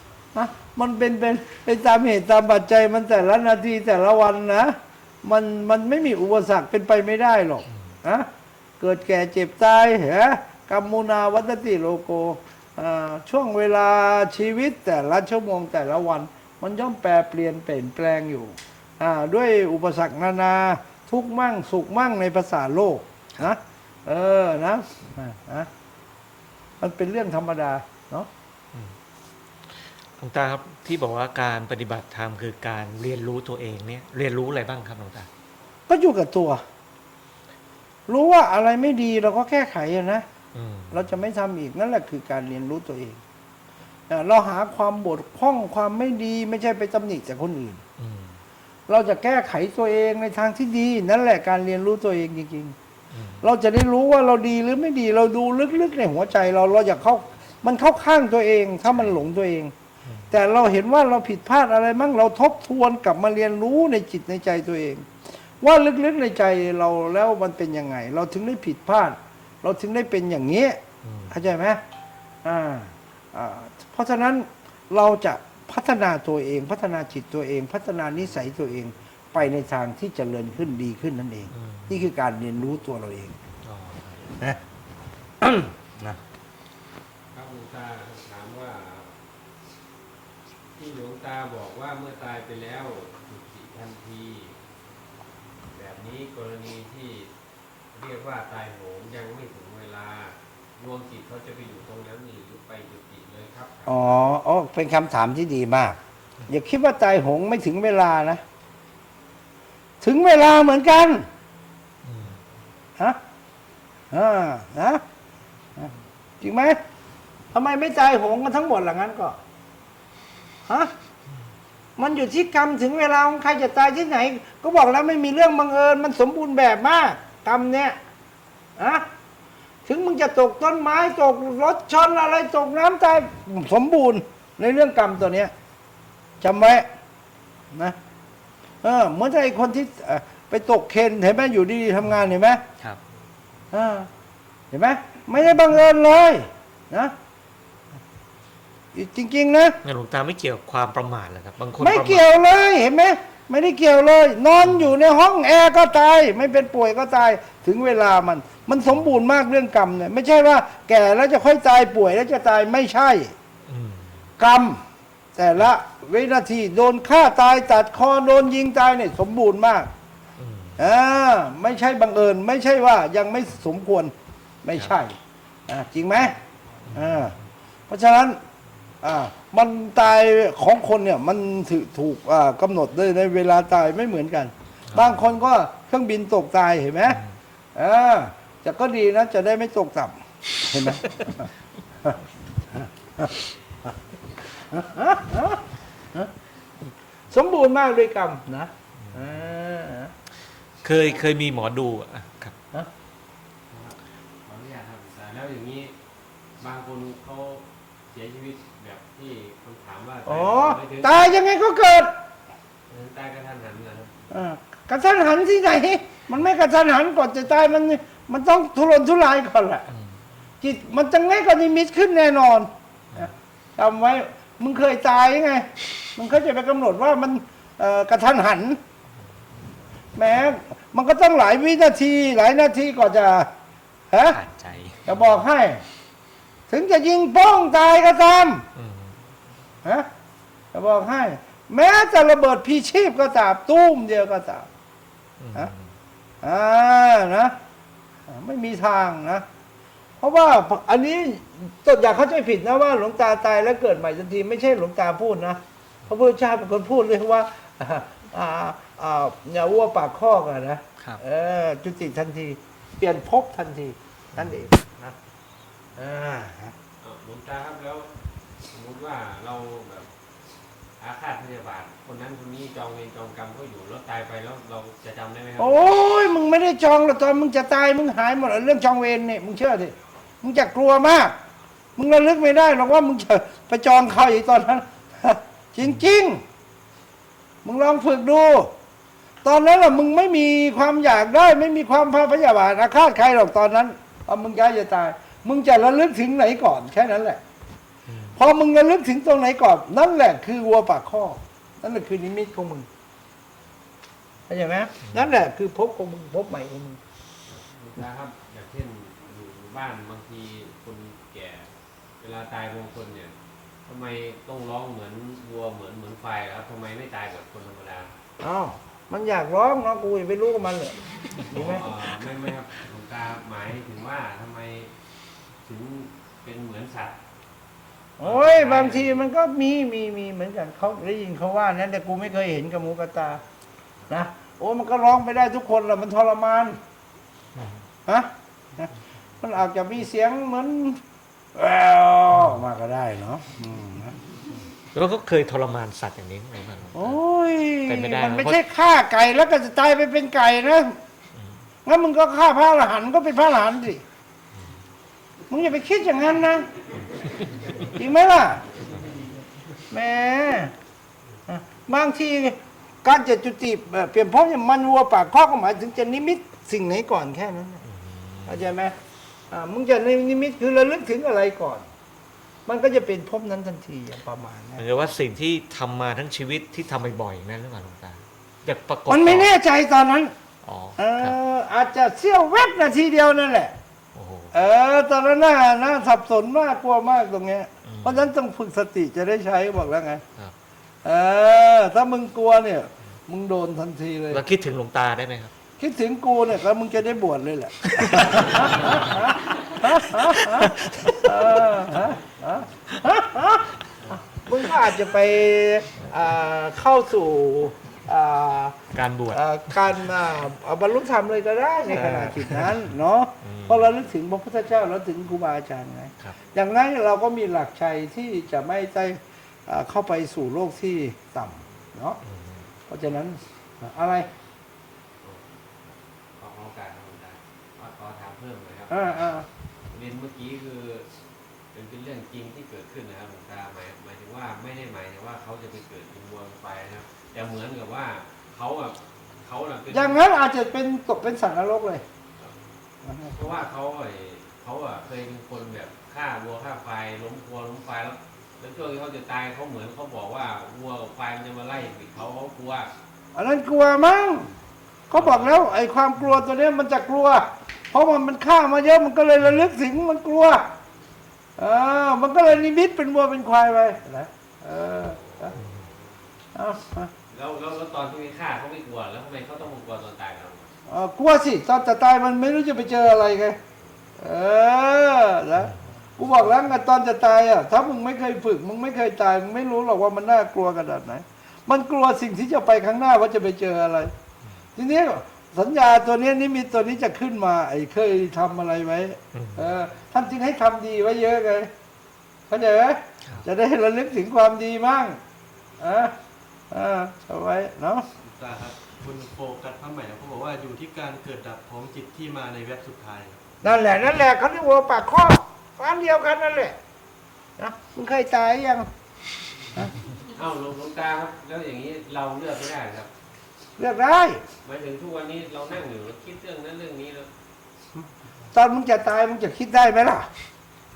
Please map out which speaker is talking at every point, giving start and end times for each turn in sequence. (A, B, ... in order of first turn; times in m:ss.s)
0:00.3-0:08.3 A
0:08.8-0:25.7 A
0:26.8-0:28.3 A
0:29.7-0:35.3 B
0:35.9-0:36.6 A
0:38.1-0:40.2 A
0:40.5-0:41.1 B
0:40.9-0:43.2 A
0:44.1-0:47.8 A
0:48.0-0:48.4 B
0:48.9-0:52.7 A
0:53.1-0:53.4 B
0:53.4-0:59.7 A
1:00.0-1:00.3 B
1:00.3-1:05.1 A
1:05.6-1:11.8 A
1:11.0-1:11.4 B
1:12.4-1:23.3 A
1:21.5-1:22.0 B
1:23.6-1:24.3 B
1:25.4-1:26.2 A
1:27.3-1:29.1 C
1:30.7-1:34.6 C
1:35.7-1:37.3 C
1:37.9-1:44.2 C
1:43.9-1:48.4 A
1:50.0-1:51.2 A
1:52.0-1:52.4 B
1:54.1-1:55.0 A
1:55.8-1:56.8 A
1:57.5-1:59.4 A
2:02.0-2:08.0 A
2:08.8-2:09.0 A
2:09.8-2:15.5 A
2:16.4-2:16.9 A
2:18.8-2:22.6 A
2:23.7-2:24.1 A
2:24.7-2:27.1 A
2:28.9-2:29.8 A
2:29.8-2:32.3 B
2:31.8-2:43.3 A
2:34.6-2:34.9 B
2:43.7-2:44.2 B
2:44.4-2:44.8 A
2:45.4-2:49.9 A
2:50.4-2:50.9 B
2:50.8-2:54.1 A
2:54.6-2:55.2 A
2:55.7-2:56.3 A
2:56.9-2:57.2 B
2:56.9-2:57.3 A
2:57.9-2:58.4 A
2:59.0-3:07.2 A
3:04.9-3:05.3 B
3:07.1-3:07.3 B
3:07.8-3:11.5 A
3:12.7-3:13.4 A
3:14.6-3:16.3 A
3:17.3-3:20.1 A
3:19.0-3:19.3 B
3:20.8-3:22.6 B
3:23.7-3:25.9 C
3:26.6-3:31.3 C
3:30.3-3:32.1 A
3:32.9-3:34.3 C
3:34.3-3:39.8 A
3:39.9-3:40.2 B
3:40.6-3:48.8 A
3:50.2-3:53.5 A
3:54.1-3:54.4 A
3:54.5-3:55.3 B
3:55.1-3:55.8 A
3:56.7-3:58.7 A
3:58.8-3:59.2 B
4:00.7-4:04.7 A
4:05.4-4:05.9 B
4:06.4-4:07.6 A
4:08.3-4:09.4 A
4:10.2-4:25.2 A
4:24.3-4:24.7 B
4:26.0-4:26.7 A
4:27.0-4:28.1 C
4:28.7-4:30.1 C
4:31.0-4:35.9 C
4:35.6-4:41.3 A
4:42.0-4:46.4 A
4:47.6-4:48.7 A
4:49.4-4:57.4 A
4:58.1-4:58.4 B
4:58.3-5:02.9 A
5:04.5-5:07.0 A
5:07.4-5:13.3 C
5:13.8-5:18.1 C
5:18.4-5:21.0 A
5:21.5-5:24.9 C
5:21.5-5:21.8 A
5:25.6-5:27.2 C
5:28.2-5:33.4 A
5:28.2-5:29.3 C
5:34.1-5:36.8 A
5:37.6-5:37.8 B
5:38.1-5:41.0 A
5:41.5-5:44.1 A
5:44.9-5:47.2 B
5:46.9-5:51.0 A
5:47.8-5:48.6 B
5:51.3-5:51.6 B
5:51.8-5:54.0 A
5:55.5-5:56.7 A
5:57.8-5:58.6 A
5:59.9-6:00.7 A
6:01.5-6:07.8 A
6:07.8-6:08.6 B
6:08.5-6:08.9 A
6:09.5-6:11.8 A
6:12.6-6:14.8 A
6:14.8-6:19.5 B
6:19.1-6:20.3 A
6:20.6-6:21.3 B
6:21.0-6:23.7 A
6:24.1-6:24.5 B
6:24.5-6:30.2 A
6:27.8-6:28.3 B
6:31.0-6:34.4 A
6:34.3-6:35.5 B
6:35.8-6:48.8 A
6:37.9-6:41.4 B
6:48.9-6:49.4 B
6:49.3-7:02.2 A
6:51.9-6:52.8 B
6:53.4-6:53.9 B
7:02.2-7:02.7 B
7:02.9-7:04.3 A
7:05.2-7:09.4 C
7:08.9-7:09.5 A
7:09.9-7:11.1 C
7:11.7-7:20.2 C
7:19.9-7:22.0 A
7:23.0-7:23.3 A
7:23.3-7:32.9 C
7:33.3-7:34.5 A
7:35.1-7:40.7 A
7:35.1-7:35.7 C
7:41.6-7:45.5 A
7:45.2-7:45.9 C
7:46.5-7:47.1 A
7:47.3-7:50.7 C
7:50.9-7:53.6 A
7:54.2-8:04.1 A
8:04.8-8:11.7 A
8:09.3-8:09.7 B
8:12.5-8:15.2 A
8:15.8-8:16.1 A
8:16.7-8:18.1 A
8:18.2-8:23.7 D
8:23.6-8:26.8 A
8:27.6-8:28.9 A
8:30.2-8:33.1 C
8:33.8-8:34.4 A
8:34.6-8:37.3 C
8:38.5-8:40.3 A